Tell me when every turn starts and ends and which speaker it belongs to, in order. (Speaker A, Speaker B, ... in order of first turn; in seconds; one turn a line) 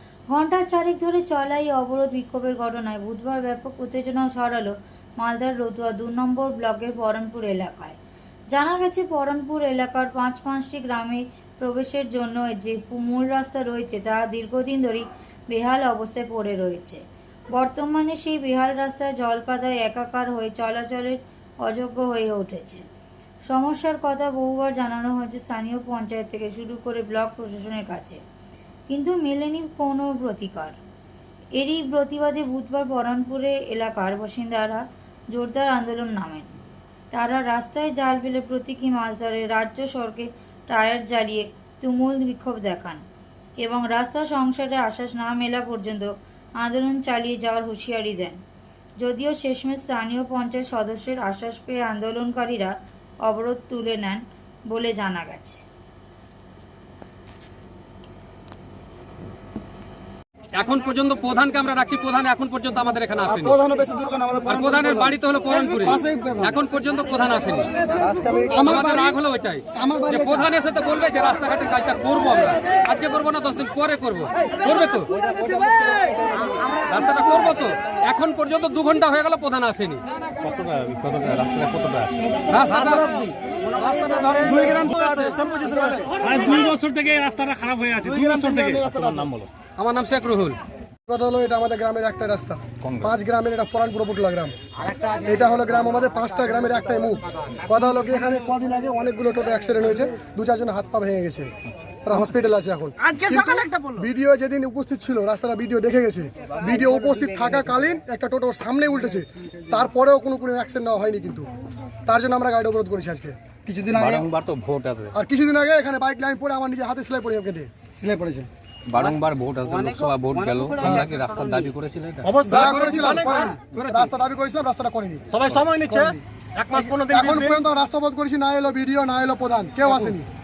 Speaker A: 0.3-8.0
Speaker A: 8.5-17.0
Speaker A: 17.5-22.8
Speaker A: 23.5-28.2
Speaker A: 28.9-30.8
Speaker A: 31.6-36.5
Speaker A: 37.1-43.0
Speaker A: 43.6-48.4
Speaker A: 49.0-52.7
Speaker A: 53.2-55.6
Speaker B: 60.5-63.6
Speaker C: 63.3-65.1
Speaker B: 64.4-67.7
Speaker C: 65.8-66.5
Speaker C: 68.0-69.2
Speaker B: 68.5-75.1
Speaker C: 69.7-70.5
Speaker B: 76.6-80.0
Speaker D: 80.4-82.4
Speaker B: 82.5-84.9
Speaker C: 82.8-83.2
Speaker C: 84.4-86.6
Speaker E: 84.9-88.7
Speaker C: 87.9-89.3
Speaker D: 88.6-89.5
Speaker B: 89.8-90.6
Speaker F: 91.1-94.5
Speaker D: 92.8-93.1
Speaker F: 95.1-101.5
Speaker F: 102.0-111.5
Speaker F: 112.0-113.4
Speaker C: 113.7-114.2
Speaker D: 113.9-115.1
Speaker F: 115.1-117.7
Speaker C: 118.0-118.5
Speaker D: 118.9-122.4
Speaker C: 119.7-121.7
Speaker E: 122.2-123.6
Speaker B: 122.5-124.1
Speaker F: 122.5-126.2
Speaker E: 125.3-127.6
Speaker F: 126.7-130.3